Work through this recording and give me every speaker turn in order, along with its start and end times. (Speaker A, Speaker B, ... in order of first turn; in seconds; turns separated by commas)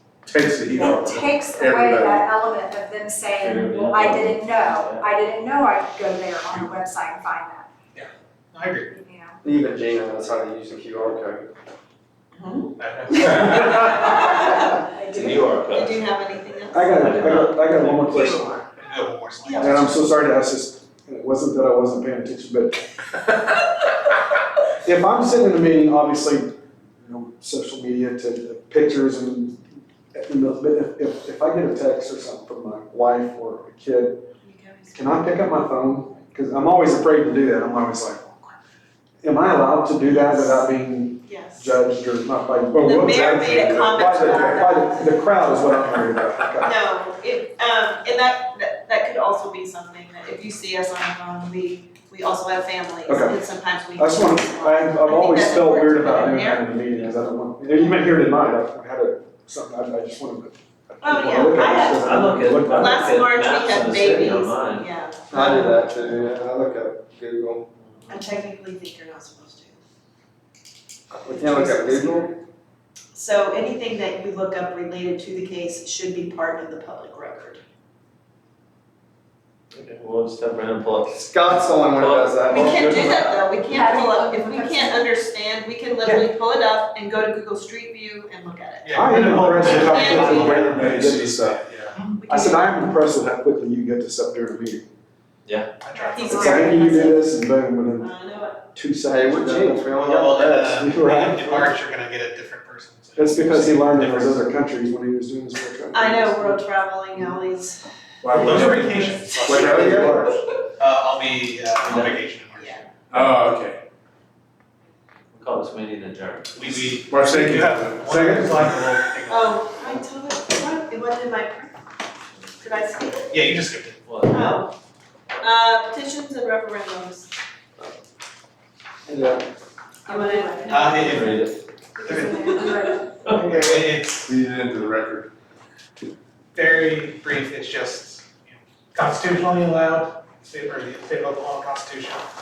Speaker A: 0.2-2.3, Speaker B: 0.7-7.7, Speaker C: 3.3-5.1, Speaker D: 7.9-8.9, Speaker B: 8.9-9.4, Speaker E: 9.4-11.5, Speaker F: 12.3-17.2, Speaker D: 12.8-13.9, Speaker B: 14.8-15.5, Speaker C: 15.1-16.0, Speaker G: 16.7-18.6, Speaker C: 17.0-18.4, Speaker D: 18.6-19.8, Speaker F: 19.4-19.9, Speaker G: 19.6-22.8, Speaker G: 24.8-29.6, Speaker G: 30.1-34.2, Speaker F: 34.4-35.3, Speaker G: 34.9-38.6, Speaker G: 39.2-46.7, Speaker F: 40.0-40.7, Speaker F: 41.2-41.8, Speaker F: 42.8-45.4, Speaker F: 46.6-56.8, Speaker G: 53.0-53.4, Speaker G: 54.0-63.1, Speaker F: 61.0-62.1, Speaker C: 61.5-65.8, Speaker F: 62.7-65.7, Speaker E: 65.3-67.6, Speaker C: 67.8-68.2, Speaker F: 68.1-69.8, Speaker E: 71.1-72.3, Speaker F: 71.3-72.4, Speaker F: 73.1-77.6, Speaker C: 79.7-83.5, Speaker E: 81.1-82.9, Speaker F: 82.5-90.8, Speaker B: 83.6-85.0, Speaker D: 88.8-92.2, Speaker G: 88.9-91.6, Speaker A: 89.5-90.2, Speaker A: 90.7-91.5, Speaker F: 92.2-92.8, Speaker G: 92.3-94.8, Speaker C: 95.4-95.7, Speaker D: 95.8-96.4, Speaker F: 96.0-97.3, Speaker G: 96.2-98.1, Speaker F: 98.0-98.6, Speaker G: 98.7-101.7, Speaker E: 99.1-100.8, Speaker D: 100.0-104.4, Speaker G: 103.2-106.6, Speaker F: 105.9-107.8, Speaker A: 108.2-109.0, Speaker D: 108.3-109.5, Speaker G: 108.5-108.8, Speaker G: 109.3-110.3, Speaker E: 109.5-110.3, Speaker A: 109.5-110.1, Speaker D: 110.8-112.8, Speaker C: 111.8-112.1, Speaker F: 112.5-112.8, Speaker A: 113.1-113.8, Speaker C: 115.3-116.6, Speaker D: 116.5-119.6, Speaker A: 116.9-118.5, Speaker G: 118.0-118.8, Speaker F: 119.3-121.8, Speaker F: 122.6-123.4, Speaker D: 123.3-124.0, Speaker C: 124.0-124.6, Speaker F: 124.3-124.7, Speaker F: 125.4-127.3, Speaker E: 129.1-129.4, Speaker F: 130.0-131.3, Speaker B: 130.1-131.0, Speaker D: 130.7-131.4, Speaker C: 130.9-131.5, Speaker F: 131.9-132.9, Speaker D: 132.0-132.6, Speaker B: 132.2-133.1, Speaker C: 133.2-133.6, Speaker D: 133.4-134.3, Speaker A: 134.2-135.3, Speaker D: 136.6-142.2